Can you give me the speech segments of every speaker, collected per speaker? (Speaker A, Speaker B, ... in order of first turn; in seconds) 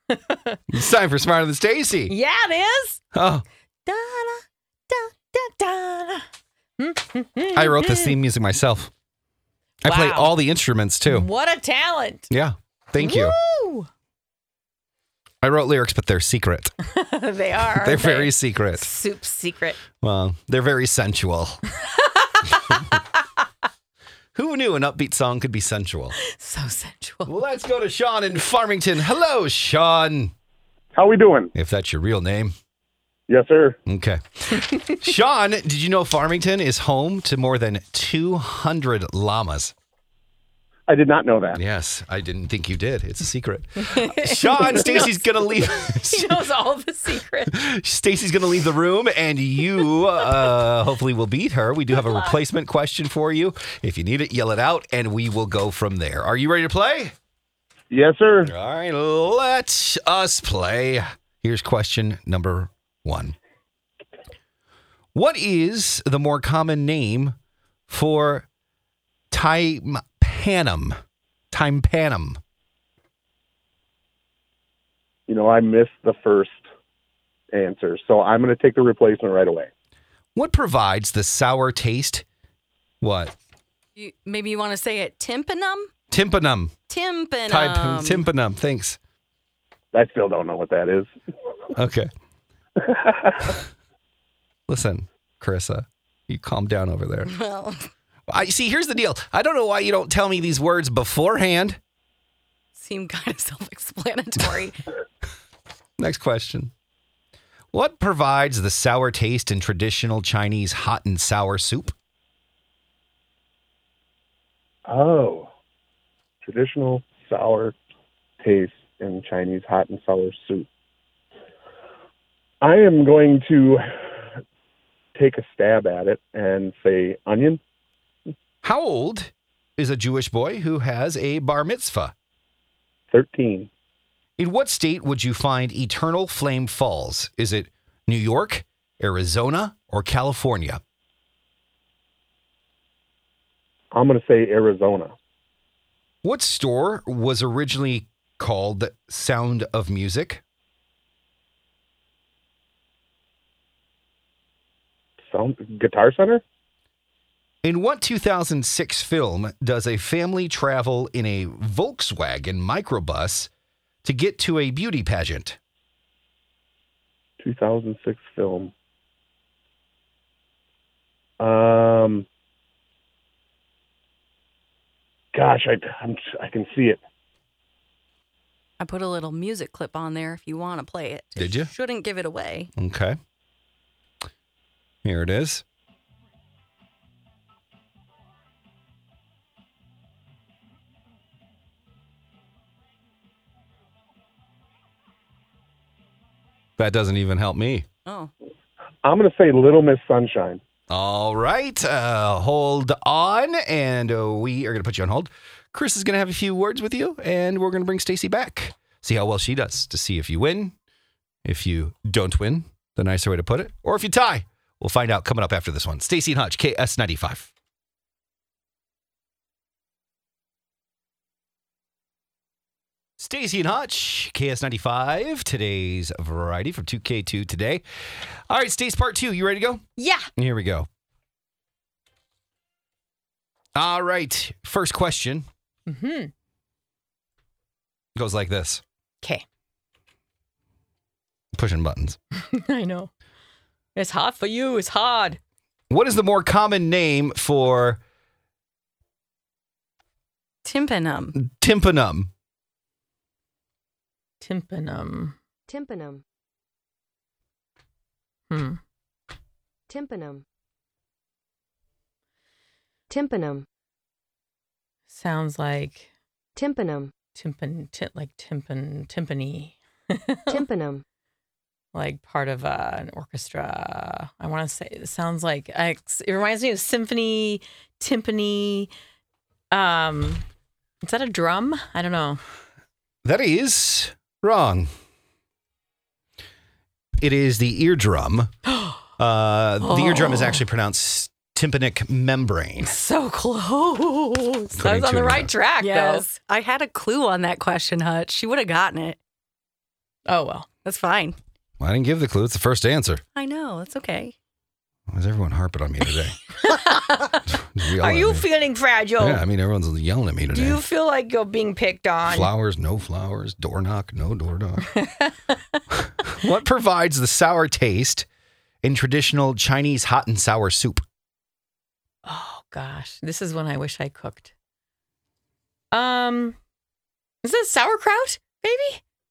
Speaker A: 0.1-0.6, 2.1-3.0, 3.8-6.2, 6.8-8.2, 9.8-10.3, 11.1-12.3, 13.0-13.9, 16.8-19.8, 21.8-23.0, 26.1-27.3, 43.8-47.6, 51.9-52.3, 230.0-230.3, 235.8-236.3, 242.4-243.1, 243.9-245.4, 254.4-255.4, 258.5-258.8, 265.1-266.1, 267.3-270.6, 271.9-278.9, 279.7-280.4, 281.0-282.4, 288.7-289.0, 289.8-290.6, 292.8-296.3, 300.2-300.7, 306.5-309.4, 310.5-312.5, 314.9-315.8, 322.2-324.5, 325.9-326.6, 327.4-329.0
Speaker B: 0.7-2.1, 3.1-3.4, 7.5-8.9, 9.8-11.3, 12.3-13.4, 15.4-16.7, 17.8-18.9, 20.0-21.6, 24.3-26.1, 27.2-30.3, 31.5-32.5, 33.9-39.7, 41.5-46.4, 47.5-57.1, 58.4-63.3, 65.1-67.3, 67.9-68.5, 69.3-70.9, 71.5-72.4, 80.3-82.2, 83.0-83.3, 86.1-86.8, 87.5-89.0, 91.7-92.1, 94.7-97.3, 98.3-101.8, 106.0-106.7, 107.7-111.9, 128.6-132.1, 134.4-140.8, 146.2-150.4, 157.6-163.5, 164.0-165.6, 181.4-181.7, 182.8-183.2, 185.0-185.6, 196.8-197.8, 200.9-210.7, 211.4-217.5, 223.2-227.8, 228.5-229.8, 230.3-230.9, 233.7-235.4, 238.1-238.8, 241.5-242.2, 245.9-248.0, 251.3-252.3, 283.2-284.9, 287.2-288.5, 289.2-292.9, 294.7-295.5, 301.8-303.2, 305.1-306.4, 307.5-308.5, 309.2-310.8, 312.2-314.9, 316.2-318.2, 318.8-321.0
Speaker C: 30.9-31.5, 33.3-33.8, 40.9-41.6, 57.9-58.5, 75.3-76.6, 77.5-79.7, 89.9-91.1, 92.8-93.5, 114.9-115.5, 116.4-117.8, 118.4-120.7, 122.6-123.8, 125.1-127.6, 133.1-133.7, 143.9-145.1, 155.3-156.4, 167.4-168.7, 171.4-172.2, 175.3-177.0, 199.0-200.6
Speaker D: 84.0-85.9, 86.9-88.2, 97.3-97.8, 102.8-104.8, 178.8-182.7, 198.1-198.3, 250.6-251.3, 295.8-299.2, 300.8-301.4, 303.3-304.3
Speaker E: 255.7-256.2, 259.9-260.4, 263.1-263.6, 266.6-267.1, 270.5-271.0